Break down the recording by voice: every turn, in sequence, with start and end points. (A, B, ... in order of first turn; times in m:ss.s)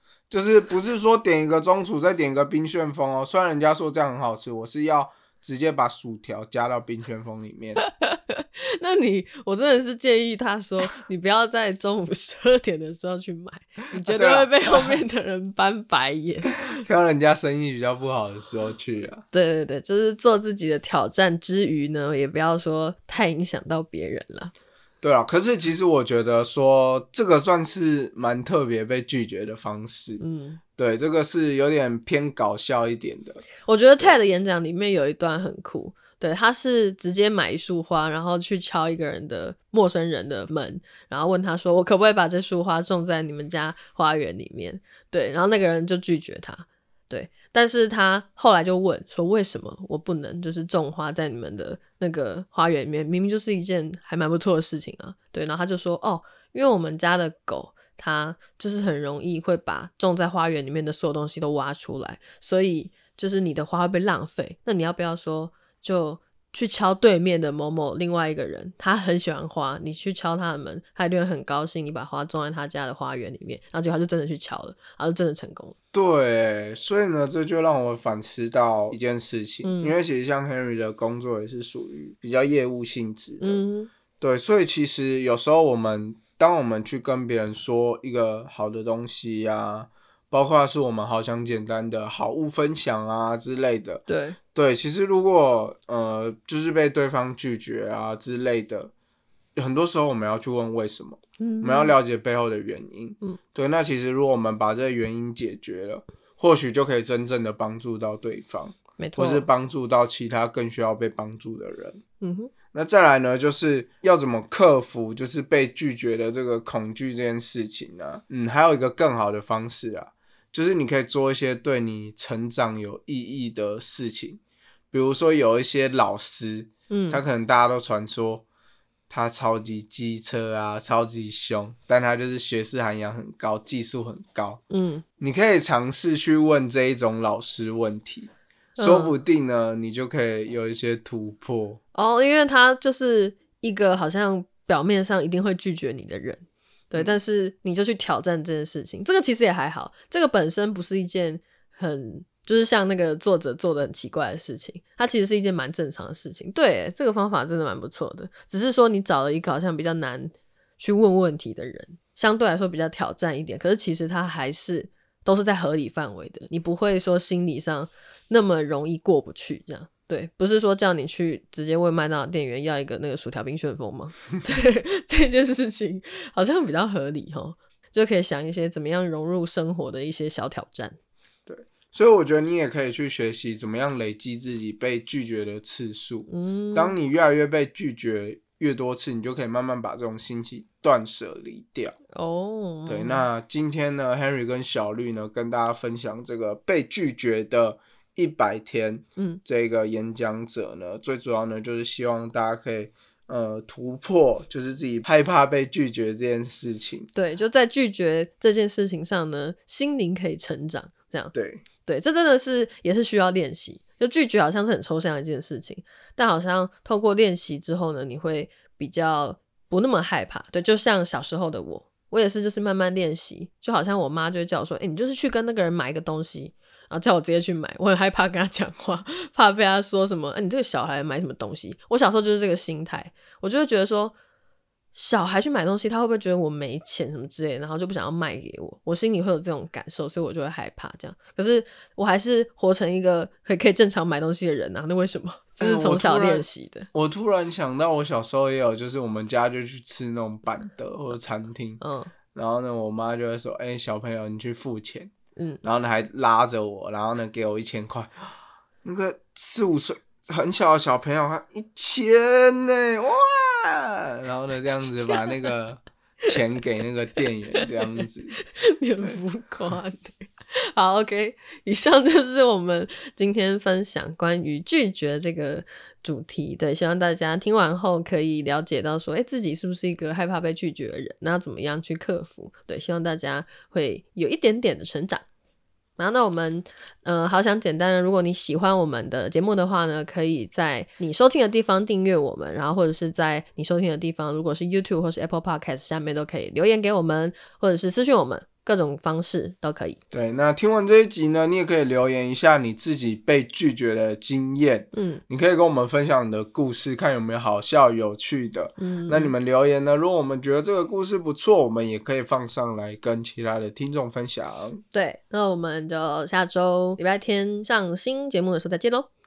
0:00.3-0:07.8 A
0:07.8-0:16.8 B
0:14.0-0:15.0 A
0:16.5-0:19.2 A
0:19.3-0:24.5 B
0:25.0-0:30.2 A
0:30.2-0:30.6 B
0:30.8-0:33.4 A
0:33.6-1:15.8 B
1:15.9-1:23.6 A
1:19.6-1:20.0 B
1:23.4-1:23.9 B
1:24.2-1:34.0 A
1:34.1-1:34.4 B
1:34.5-1:38.9 A
1:39.6-1:52.0 A
1:41.4-1:42.0 B
1:49.0-1:49.5 B
1:52.2-1:52.5 B
1:52.7-2:04.4 A
2:04.9-2:08.4 A
2:06.9-2:07.2 B
2:09.1-2:14.6 A
2:14.7-2:15.0 B
2:15.2-2:21.8 A
2:18.8-2:19.2 B
2:22.0-3:01.0 B
3:01.5-3:12.0 A
3:06.3-3:07.0 B
3:12.1-3:13.3 B
3:12.9-3:27.1 A
3:27.2-3:54.2 B
3:31.3-3:31.6 A
3:54.9-4:06.9 B
4:05.6-4:11.8 A
4:11.8-4:12.1 B
4:12.3-4:15.1 A
4:15.4-4:15.6 B
4:15.6-4:28.4 A
4:27.6-4:45.2 B
4:46.0-5:00.0 B
5:00.1-5:14.8 A
5:04.9-5:05.2 B
5:08.8-5:09.3 B
5:14.9-5:19.1 B